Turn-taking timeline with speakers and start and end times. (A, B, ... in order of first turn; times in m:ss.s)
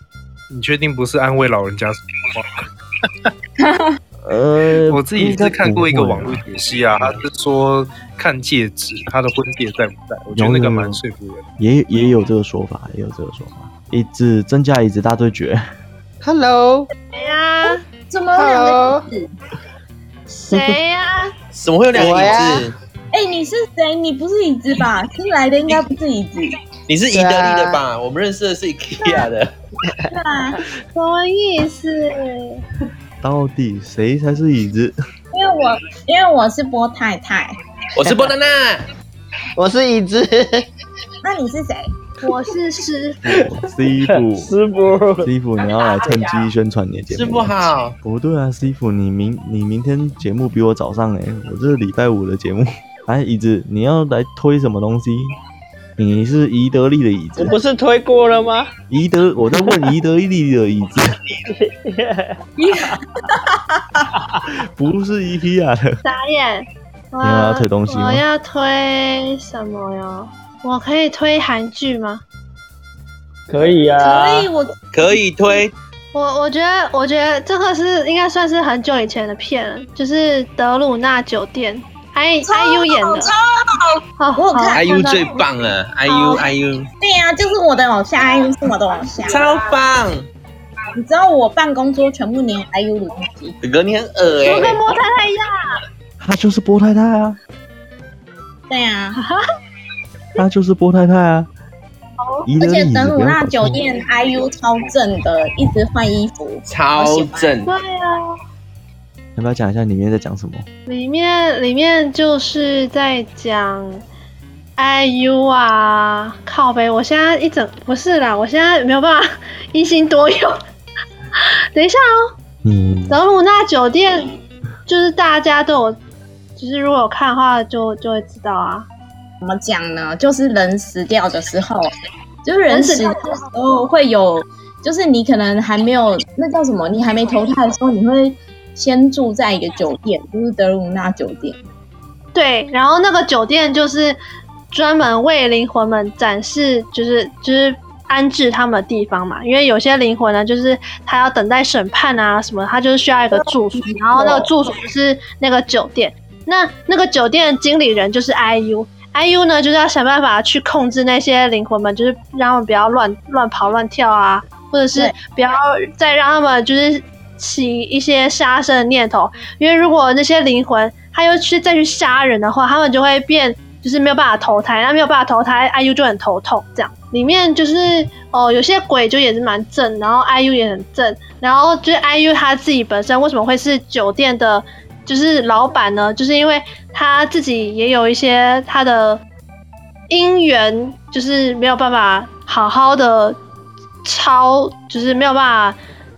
0:00.5-0:02.6 A
0:03.6-0:03.9 B
0:04.2-0:06.4 C
0:04.9-0:11.4 A
0:10.3-0:11.0 C
0:11.6-0:15.6 C
0:16.2-0:16.9 D
0:17.1-0:17.8 E
0:17.6-0:19.2 B
0:18.4-0:19.0 D
0:20.3-0:21.3 E
0:21.5-0:22.8 F
0:21.9-0:22.7 D
0:23.1-0:26.5 B
0:26.9-0:29.5 F
0:27.1-0:27.8 D
0:29.0-0:29.3 B
0:30.1-0:30.6 B
0:31.0-0:32.6 E
0:33.2-0:35.0 C
0:35.3-0:37.5 B
0:38.0-0:38.8 F
0:38.0-0:38.3 D
0:39.6-0:40.6 D
0:41.2-0:41.9 B
0:42.2-0:43.2 E
0:43.3-0:44.5 C
0:44.0-0:45.3 D
0:45.2-0:55.3 C
0:45.6-0:46.4 F
0:47.1-0:47.9 F
0:56.0-0:57.6 C
0:57.4-0:58.7 D
0:58.9-1:01.1 C
1:01.5-1:02.4 D
1:02.6-1:03.4 B
1:04.7-1:06.0 C
1:06.0-1:12.2 E
1:07.2-1:08.3 C
1:13.5-1:14.5 D
1:14.0-1:15.1 B
1:14.9-1:15.7 F
1:16.1-1:23.3 E
1:22.4-1:23.4 B
1:24.2-1:25.2 E
1:24.4-1:25.2 B
1:24.7-1:26.9 F
1:26.1-1:26.4 E
1:26.1-1:26.4 B
1:27.0-1:29.7 B
1:29.3-1:30.3 F
1:31.0-1:33.6 B
1:33.6-1:34.8 F
1:34.4-1:35.5 E
1:36.2-1:37.4 C
1:38.7-1:39.2 B
1:40.4-1:41.5 C
1:42.2-1:42.5 E
1:42.4-1:43.8 C
1:42.6-1:47.5 B
1:46.7-1:47.7 F
1:47.7-1:48.3 E
1:49.4-1:50.7 C
1:50.9-1:54.0 E
1:54.8-2:00.6 E
2:01.7-2:02.0 E
2:02.6-2:03.2 C
2:03.1-2:04.3 E
2:04.9-2:06.0 E
2:06.6-2:08.9 E
2:09.4-2:11.9 B
2:12.4-2:21.6 B
2:12.7-2:13.2 E
2:22.3-2:24.2 E
2:24.7-3:09.2 E
2:33.3-2:34.5 B
3:10.1-3:13.4 E
3:14.0-3:15.8 E